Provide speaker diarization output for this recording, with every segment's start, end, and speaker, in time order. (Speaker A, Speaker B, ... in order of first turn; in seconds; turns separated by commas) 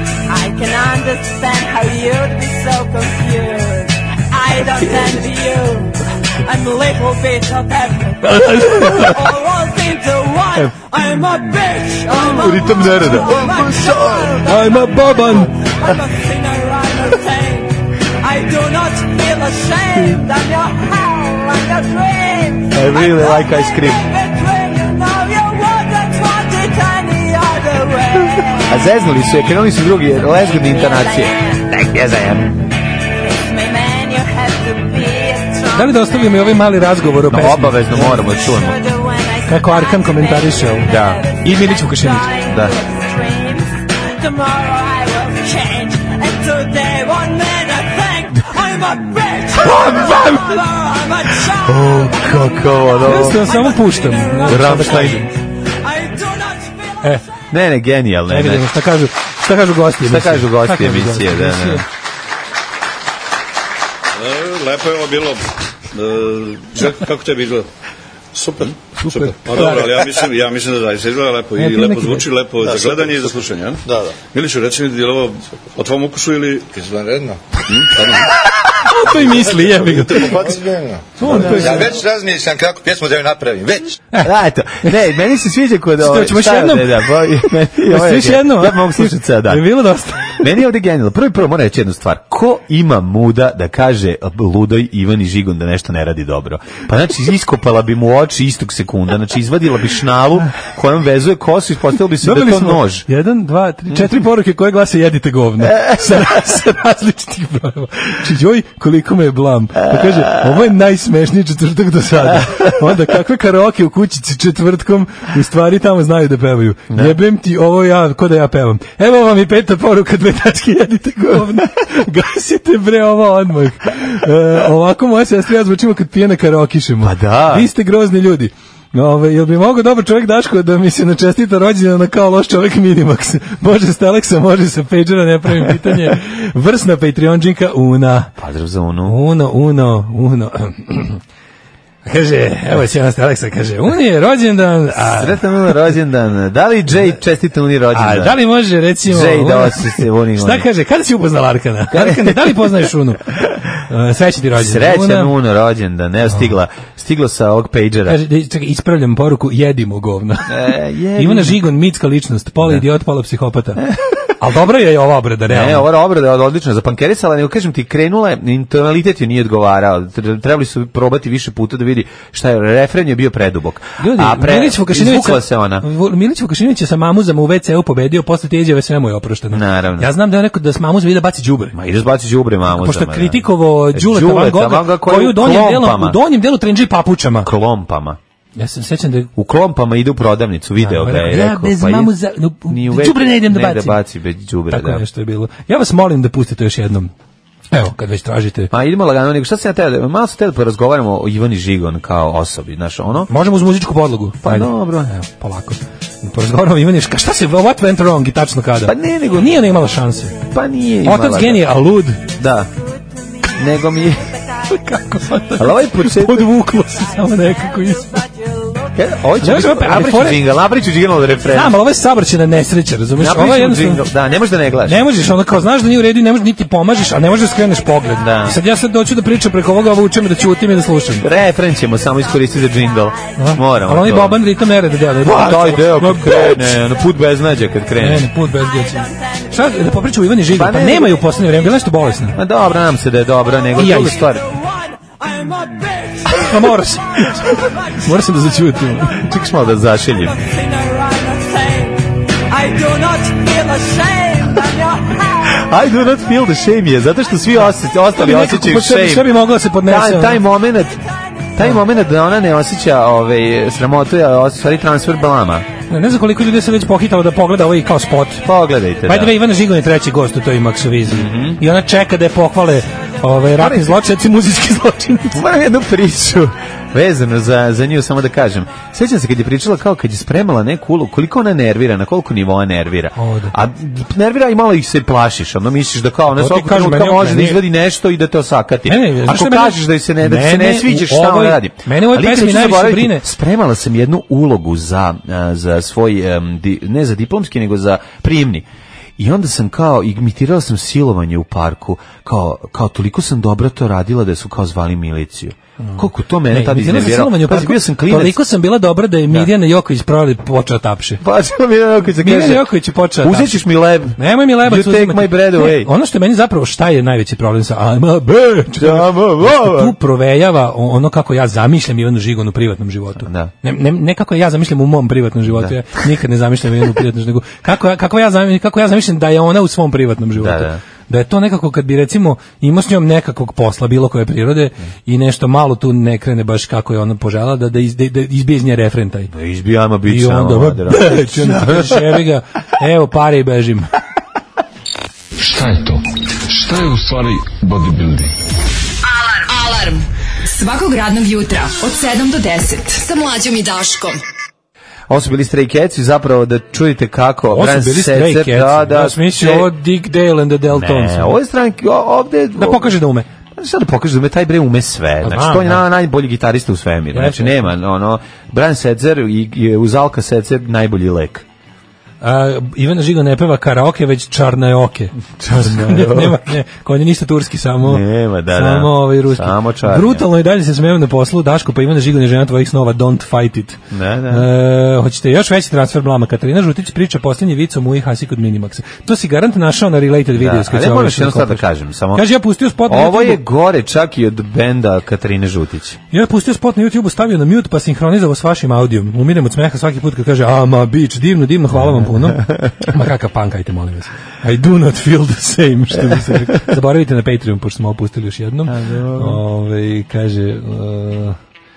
Speaker A: 0.3-28.9, Speaker B: 8.2-9.2, Speaker C: 12.1-14.3, Speaker B: 14.4-15.5, Speaker C: 22.7-24.0, Speaker C: 28.7-32.6, Speaker A: 30.3-31.7, Speaker A: 33.0-36.1, Speaker B: 35.7-38.3, Speaker C: 37.3-38.8, Speaker A: 38.0-57.2, Speaker B: 39.5-42.3, Speaker C: 40.9-41.2, Speaker C: 42.5-42.7, Speaker B: 49.6-50.4, Speaker C: 49.7-50.3, Speaker C: 51.6-53.5, Speaker B: 53.0-55.3, Speaker C: 54.5-55.2, Speaker C: 57.5-58.7, Speaker B: 58.3-61.8, Speaker C: 60.0-61.9, Speaker D: 64.2-67.7, Speaker D: 68.3-76.8, Speaker B: 69.0-69.9, Speaker B: 71.6-72.2, Speaker E: 76.7-77.4, Speaker D: 77.7-78.3, Speaker B: 78.6-80.5, Speaker E: 80.0-84.0, Speaker B: 81.2-82.0, Speaker C: 81.2-81.7, Speaker C: 84.2-89.7, Speaker B: 86.0-90.4, Speaker C: 90.3-103.0, Speaker B: 102.2-138.3, Speaker C: 105.6-106.4, Speaker C: 109.8-110.5, Speaker C: 112.4-112.7, Speaker C: 116.9-117.2, Speaker C: 127.0-127.7, Speaker C: 138.4-139.2, Speaker B: 139.1-141.2, Speaker B: 142.1-145.4, Speaker C: 144.9-148.4, Speaker B: 147.9-155.3, Speaker C: 149.1-150.7, Speaker C: 151.9-152.8, Speaker C: 154.6-158.2, Speaker B: 158.1-160.6, Speaker C: 160.5-161.6, Speaker B: 161.2-165.9, Speaker C: 165.5-175.9, Speaker B: 174.0-181.8, Speaker C: 179.5-180.1, Speaker C: 181.7-186.2, Speaker B: 182.7-187.5, Speaker C: 187.4-188.2, Speaker B: 188.6-189.3, Speaker C: 189.4-192.1, Speaker B: 190.8-194.0, Speaker C: 192.7-195.0, Speaker B: 194.7-197.1, Speaker B: 197.7-198.7, Speaker C: 198.7-203.3, Speaker B: 203.3-210.4, Speaker C: 204.4-205.1, Speaker C: 208.8-209.8, Speaker A: 209.6-210.7, Speaker C: 210.5-211.7, Speaker B: 211.0-212.2, Speaker A: 212.0-215.7, Speaker C: 212.4-212.7, Speaker C: 213.6-214.3, Speaker B: 214.7-218.2, Speaker C: 215.6-216.6, Speaker A: 216.4-219.1, Speaker C: 218.9-221.8, Speaker B: 219.4-220.5, Speaker B: 221.5-224.1, Speaker C: 223.2-225.1, Speaker B: 224.8-231.3, Speaker A: 227.0-228.5, Speaker C: 228.2-228.6, Speaker A: 230.0-233.6, Speaker C: 231.2-234.4, Speaker B: 233.4-236.8, Speaker A: 234.6-235.0, Speaker C: 235.2-238.3, Speaker B: 238.0-242.4, Speaker A: 238.4-240.3, Speaker C: 240.5-241.3, Speaker A: 241.2-242.3, Speaker C: 242.3-244.4, Speaker A: 243.4-249.2, Speaker B: 243.8-244.2, Speaker B: 246.4-249.2, Speaker C: 249.1-250.4, Speaker A: 250.0-255.7, Speaker C: 255.5-261.0, Speaker B: 258.1-260.4, Speaker A: 261.0-261.6, Speaker C: 261.6-265.7, Speaker B: 265.9-268.5, Speaker C: 268.4-269.4, Speaker B: 269.1-275.4, Speaker C: 271.1-271.6, Speaker C: 273.6-274.0, Speaker C: 275.3-298.7, Speaker B: 283.2-283.6, Speaker B: 286.3-287.6, Speaker B: 288.9-293.2, Speaker C: 299.2-308.4, Speaker B: 305.8-311.2, Speaker C: 311.2-315.9, Speaker B: 312.2-313.6, Speaker B: 314.2-339.3, Speaker C: 318.8-319.9, Speaker C: 323.2-323.5, Speaker C: 325.5-325.7, Speaker C: 330.4-330.8, Speaker C: 339.3-342.2, Speaker B: 340.1-343.9, Speaker F: 345.4-348.4, Speaker G: 349.1-354.2, Speaker C: 355.1-359.7, Speaker B: 357.5-361.4, Speaker C: 360.7-363.0, Speaker B: 362.6-363.3, Speaker C: 363.6-371.4, Speaker B: 365.2-365.8, Speaker B: 367.1-367.6, Speaker B: 372.2-391.6, Speaker C: 375.4-376.5, Speaker C: 377.8-380.3, Speaker C: 383.9-384.5, Speaker C: 390.3-392.3, Speaker B: 392.1-393.4, Speaker C: 392.9-396.0, Speaker B: 396.1-411.4, Speaker C: 401.7-402.7, Speaker C: 408.7-409.4